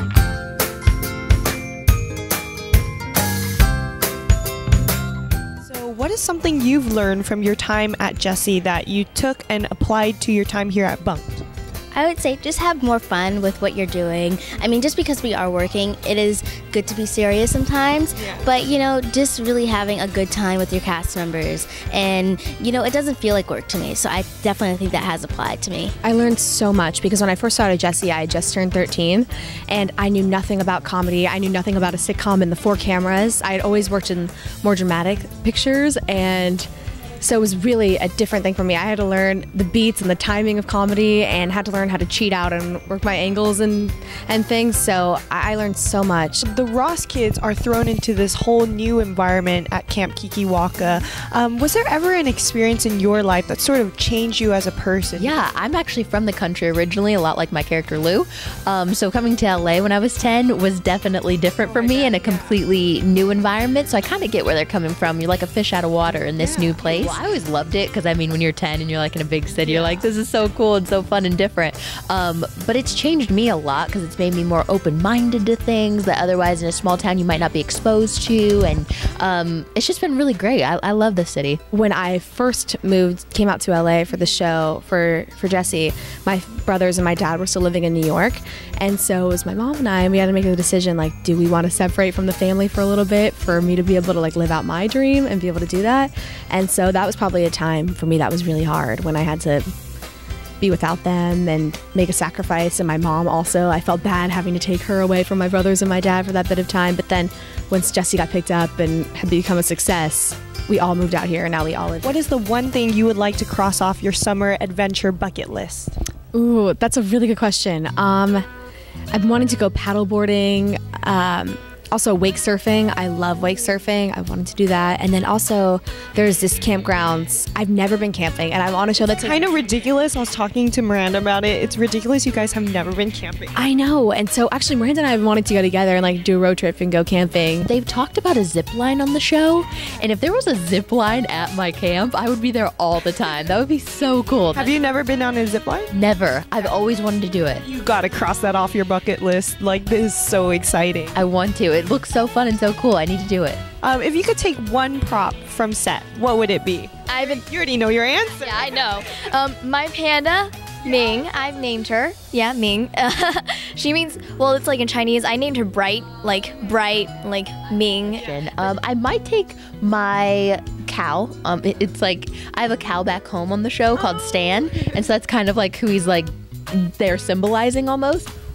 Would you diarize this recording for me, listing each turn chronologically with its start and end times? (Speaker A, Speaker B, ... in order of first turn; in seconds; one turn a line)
Speaker A: 5.6-11.5
Speaker B: 11.9-25.9
Speaker C: 26.0-36.7
Speaker C: 37.2-46.4
Speaker A: 46.4-55.4
Speaker D: 55.2-81.6
Speaker A: 61.6-62.5
Speaker A: 66.4-67.2
Speaker A: 69.6-70.1
Speaker C: 81.7-99.7
Speaker C: 100.6-112.2
Speaker A: 112.0-116.0
Speaker C: 116.3-118.5
Speaker C: 119.1-129.4
Speaker A: 129.2-133.6
Speaker C: 133.6-137.7
Speaker D: 137.7-144.7
Speaker A: 144.5-145.9
Speaker D: 145.9-147.7
Speaker A: 147.6-151.2
Speaker D: 151.1-153.6
Speaker A: 153.8-159.2
Speaker E: 157.1-157.4
Speaker E: 158.4-168.2
Speaker D: 168.1-178.3